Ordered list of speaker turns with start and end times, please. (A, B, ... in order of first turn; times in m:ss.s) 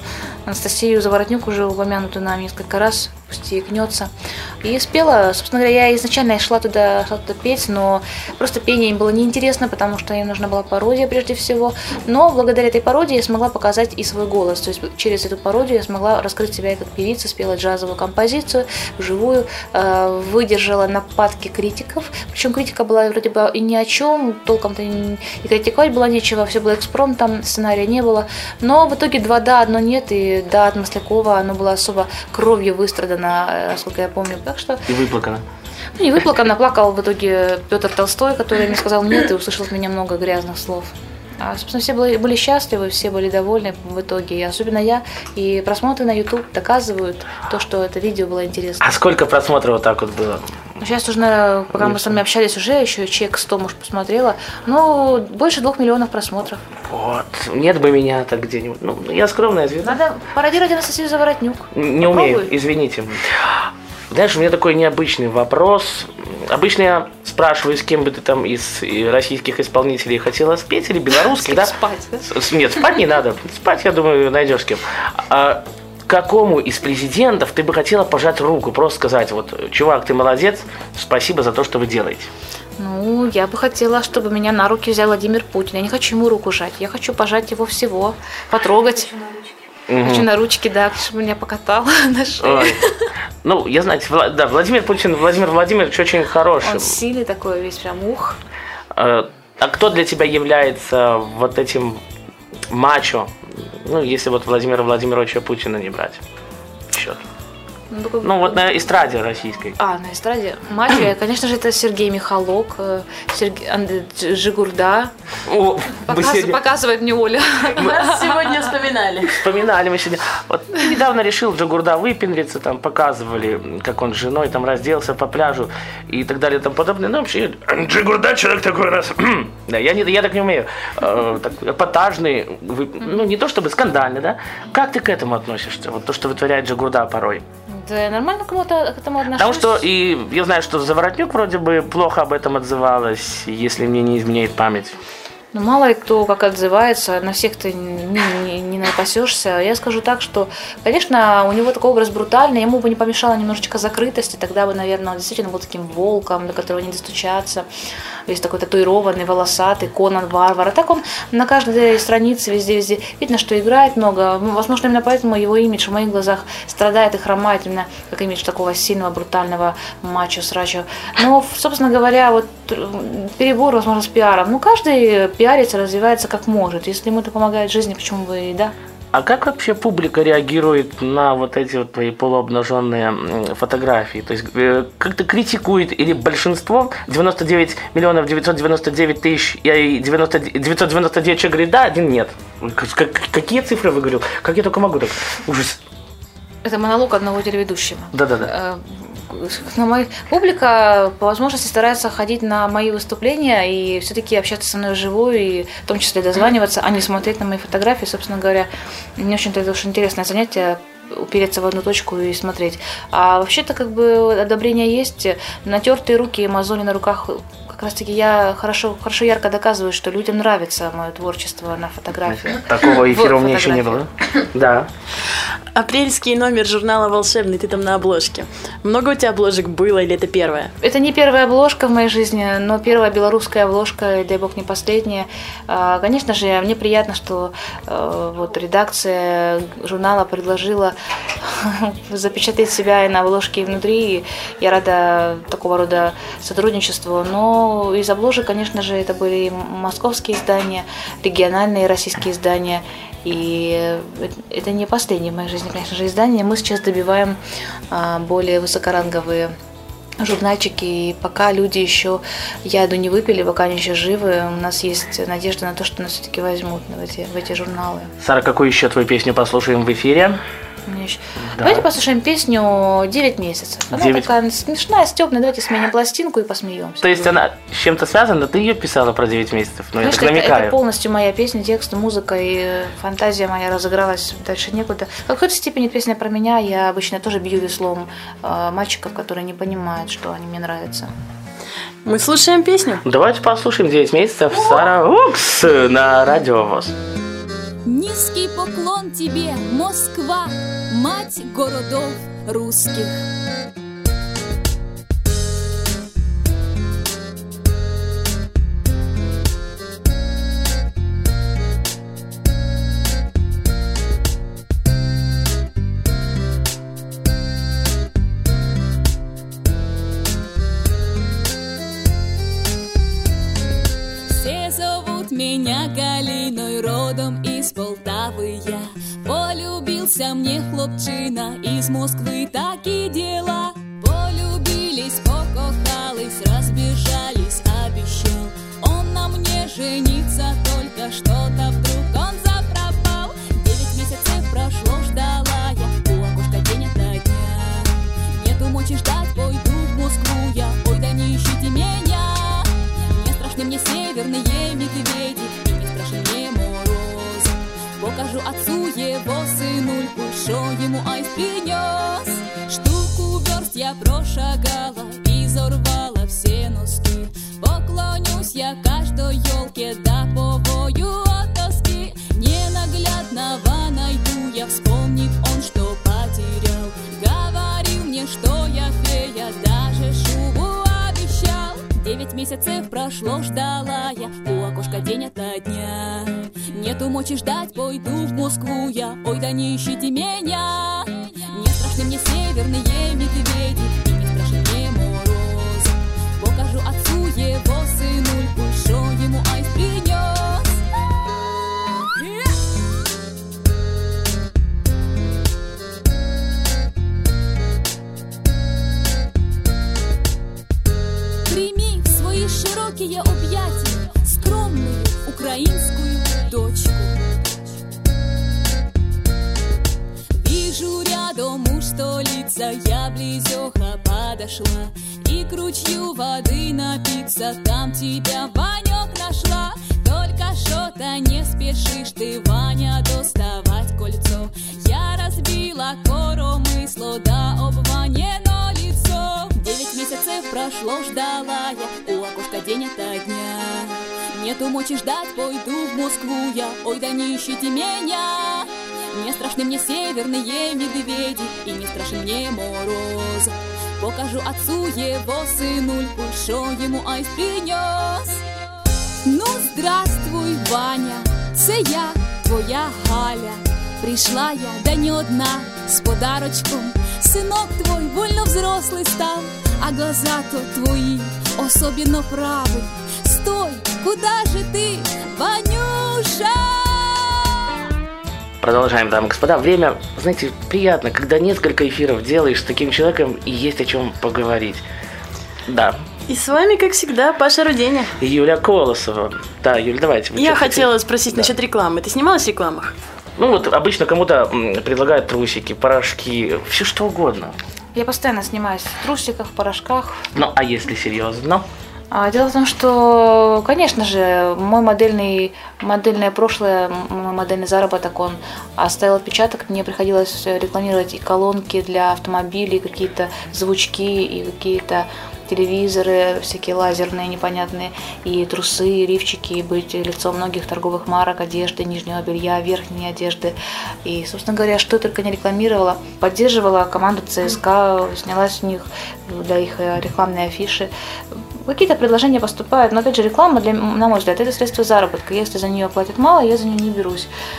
0:00.4-0:34.9 A
0:34.9-0:35.4 B
0:36.0-0:48.9 A
0:48.8-0:50.6 B
0:50.8-0:56.6 A
0:51.7-0:52.2 B
0:56.9-1:00.0 B
0:59.8-1:02.5 A
1:01.7-1:22.3 B
1:11.1-1:12.3 A
1:22.8-1:29.4 A
1:29.9-1:30.3 B
1:30.0-1:32.9 A
1:32.4-1:32.8 B
1:33.4-1:37.0 B
1:36.6-1:38.4 A
1:38.9-1:42.0 B
1:42.7-1:46.2 B
1:46.9-1:47.2 B
1:47.9-1:48.9 A
1:48.2-1:49.8 B
1:49.8-1:55.1 A
1:55.4-1:56.6 B
1:55.9-1:58.5 A
1:57.7-1:59.4 C
1:59.3-2:17.4 B
2:17.7-2:19.8 A
2:19.3-2:25.0 B
2:25.5-2:37.6 A
2:38.3-2:58.7 A
2:59.1-3:15.8 B
3:16.6-3:44.1 A
3:18.1-3:18.5 B
3:42.3-3:44.9 B
3:45.7-3:50.7 C
3:50.8-4:17.4 A
4:17.9-4:19.5 A
4:20.2-4:28.1 A
4:28.2-4:30.4 B
4:30.8-4:37.3 A
4:31.4-4:31.9 B
4:33.9-4:34.3 B
4:37.0-4:40.8 B
4:40.0-4:51.1 A
4:52.0-4:53.0 C
4:53.0-4:57.0 B
4:57.8-5:03.1 D
5:24.3-6:40.8 D
6:41.9-6:42.7 D
6:51.4-6:57.3 D
7:00.3-7:38.4 D
7:39.2-7:57.6 D
7:58.6-8:04.8 B
8:05.7-8:06.0 B
8:06.3-8:08.1 C
8:08.2-8:11.5 B
8:10.4-8:12.9 C
8:13.4-8:17.6 B
8:17.9-8:20.3 A
8:20.3-8:21.6 B
8:22.1-8:50.9 A
8:51.6-8:57.3 A